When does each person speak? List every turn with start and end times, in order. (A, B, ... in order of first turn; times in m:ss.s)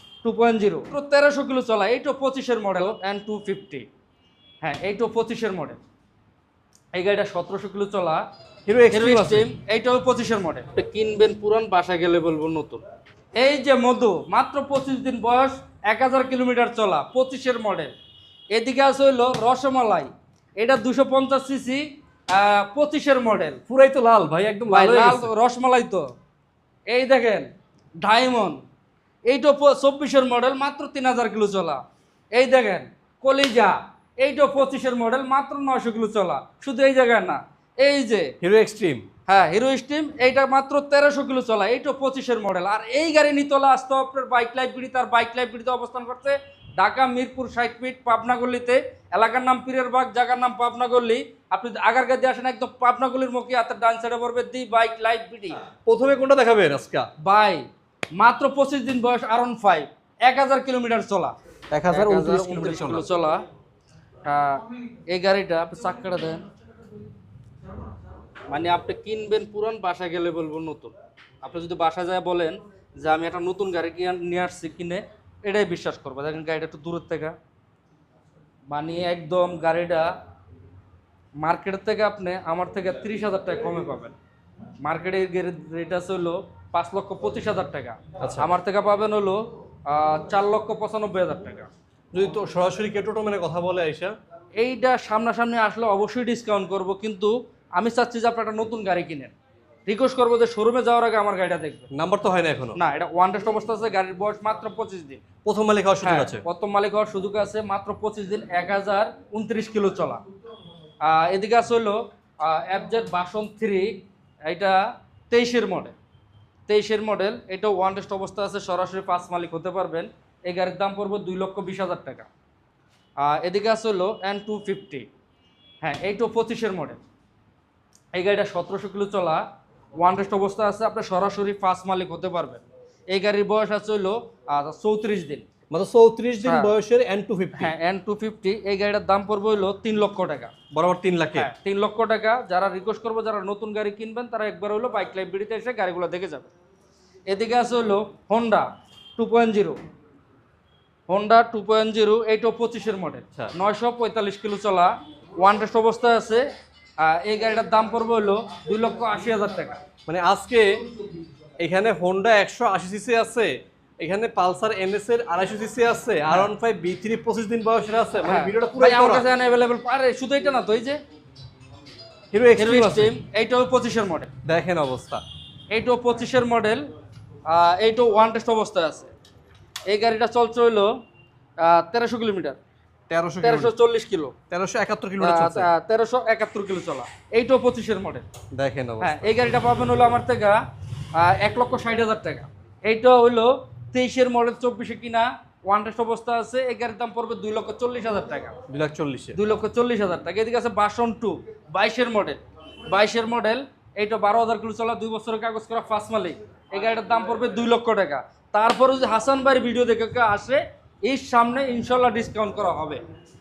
0:00.2-0:03.9 A
0:04.6-0:05.8 A
0:06.9-0:08.2 A
0:08.7-0:09.5 B
0:08.9-0:12.8 A
0:13.4-0:17.9 A
0:18.5-0:23.6 A
0:23.7-0:25.3 B
0:24.7-0:26.1 A
0:26.9-0:27.5 A
0:28.0-0:28.6 A
0:29.3-0:31.8 A
0:32.3-0:38.3 A
0:38.4-0:39.1 B
0:39.3-0:55.6 A
0:55.8-0:57.1 B
0:57.2-0:57.6 A
0:58.2-1:01.3 A
1:01.7-1:03.0 B
1:01.9-1:03.4 A
1:04.2-1:06.4 A
1:08.5-1:17.4 A
1:18.7-1:20.1 A
1:21.4-1:24.2 A
1:24.8-1:31.7 A
1:28.2-1:28.5 B
1:32.1-1:34.2 B
1:34.6-1:39.3 A
1:39.9-1:41.9 A
1:41.9-1:42.8 B
1:42.8-1:45.2 A
1:45.4-1:46.4 B
1:46.0-1:50.2 A
1:51.0-1:53.9 A
1:54.5-1:56.0 A
1:56.7-2:02.3 A
2:03.2-2:05.1 A
2:05.8-2:07.0 A
2:08.2-2:09.4 A
2:10.0-2:15.4 A
2:15.7-2:17.7 B
2:16.4-2:16.7 A
2:17.6-2:20.5 A
2:20.7-2:21.5 B
2:21.4-2:26.5 A
2:27.3-2:29.8 A
2:31.1-2:36.5 A
2:37.0-2:39.8 A
2:40.1-2:40.8 B
2:41.6-2:49.3 B
2:48.2-2:51.0 A
2:52.3-2:53.1 B
2:52.6-2:54.3 A
2:54.4-2:55.2 B
2:55.7-2:56.9 A
2:57.5-2:59.1 A
2:59.9-3:00.9 A
3:01.6-3:02.6 A
3:03.1-3:03.7 B
3:03.4-3:04.4 A
3:04.5-3:05.7 B
3:05.2-3:08.2 A
3:08.5-3:09.4 B
3:09.0-3:10.6 A
3:11.2-3:18.6 A
3:18.7-3:19.4 B
3:19.4-3:33.0 A